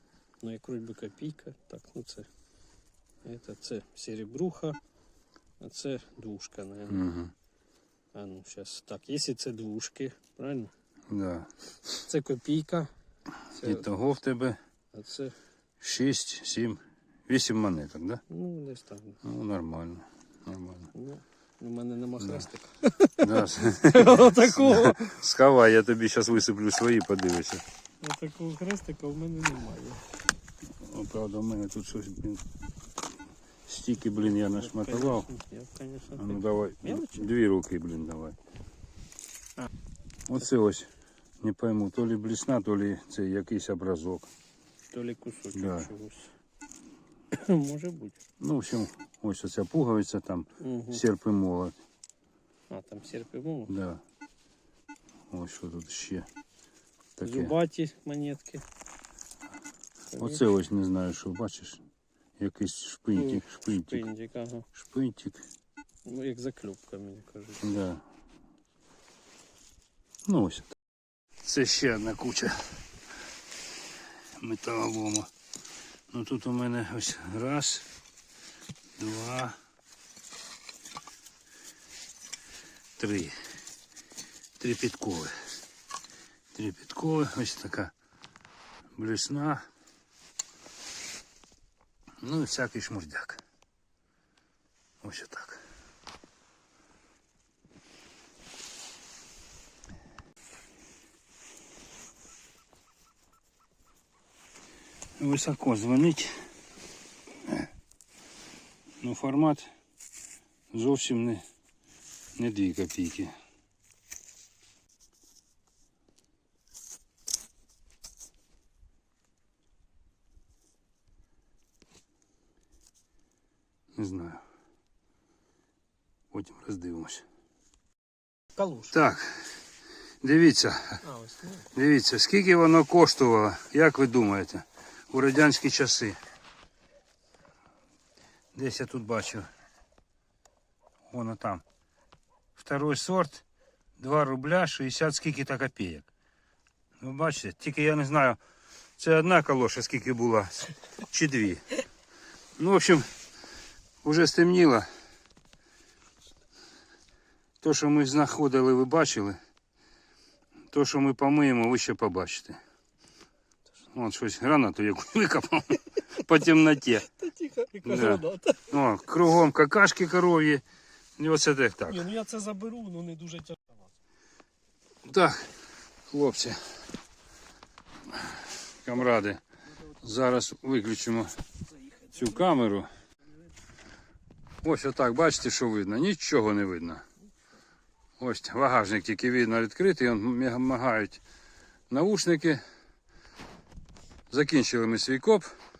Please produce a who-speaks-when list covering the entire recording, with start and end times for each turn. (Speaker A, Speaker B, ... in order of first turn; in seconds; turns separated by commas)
Speaker A: 0.4-2.3, Speaker A: 3.2-4.8, Speaker A: 5.6-7.1, Speaker B: 6.9-7.3, Speaker A: 8.1-10.7, Speaker B: 11.1-11.5, Speaker A: 12.0-12.9, Speaker A: 13.5-13.8, Speaker B: 13.6-14.6, Speaker A: 14.9-15.3, Speaker B: 15.8-18.2, Speaker A: 18.3-19.2, Speaker B: 19.2-20.9, Speaker A: 20.9-25.1, Speaker B: 23.2-27.6, Speaker A: 28.0-30.0, Speaker B: 30.8-32.4, Speaker B: 33.6-35.3, Speaker A: 34.4-37.3, Speaker B: 36.2-38.4, Speaker B: 40.3-40.9, Speaker B: 41.4-44.3, Speaker A: 44.9-46.3, Speaker B: 45.5-45.9, Speaker A: 47.3-48.2, Speaker B: 48.4-51.8, Speaker A: 50.6-51.0, Speaker A: 52.7-53.7, Speaker B: 53.7-54.0, Speaker B: 55.3-56.3, Speaker B: 57.2-57.5, Speaker A: 57.2-58.6, Speaker A: 60.1-60.4, Speaker B: 60.1-61.8, Speaker B: 62.4-64.0, Speaker A: 63.1-64.7, Speaker B: 64.7-65.4, Speaker A: 66.0-67.6, Speaker B: 67.6-68.0, Speaker B: 70.2-70.7, Speaker B: 71.4-72.8, Speaker B: 74.3-75.3, Speaker B: 76.1-77.9, Speaker B: 79.0-79.5, Speaker B: 83.0-83.3, Speaker B: 84.6-85.3, Speaker B: 86.5-87.9, Speaker B: 89.0-89.7, Speaker B: 92.2-93.4, Speaker B: 95.0-95.6, Speaker B: 105.2-106.3, Speaker B: 109.0-109.7, Speaker B: 110.7-111.4, Speaker B: 112.3-113.3, Speaker B: 123.9-124.4, Speaker B: 126.3-127.2, Speaker A: 128.6-128.9, Speaker B: 128.9-129.5, Speaker B: 130.2-131.0, Speaker A: 131.0-131.7, Speaker B: 131.7-136.2, Speaker B: 138.5-139.5, Speaker B: 141.1-141.6, Speaker B: 142.6-143.4, Speaker B: 144.0-146.1, Speaker B: 147.0-148.4, Speaker B: 149.0-151.6, Speaker B: 152.6-153.1, Speaker B: 154.0-154.9, Speaker B: 157.6-159.4, Speaker B: 160.7-162.6, Speaker B: 163.9-167.1, Speaker A: 167.2-168.7, Speaker B: 167.8-170.6, Speaker B: 171.2-172.1, Speaker A: 171.9-173.9, Speaker B: 175.0-175.6, Speaker B: 176.1-176.6, Speaker B: 178.1-179.4, Speaker B: 179.9-181.3, Speaker B: 182.1-182.9, Speaker B: 184.6-187.0, Speaker B: 188.2-191.2, Speaker B: 191.9-192.6, Speaker B: 194.3-195.5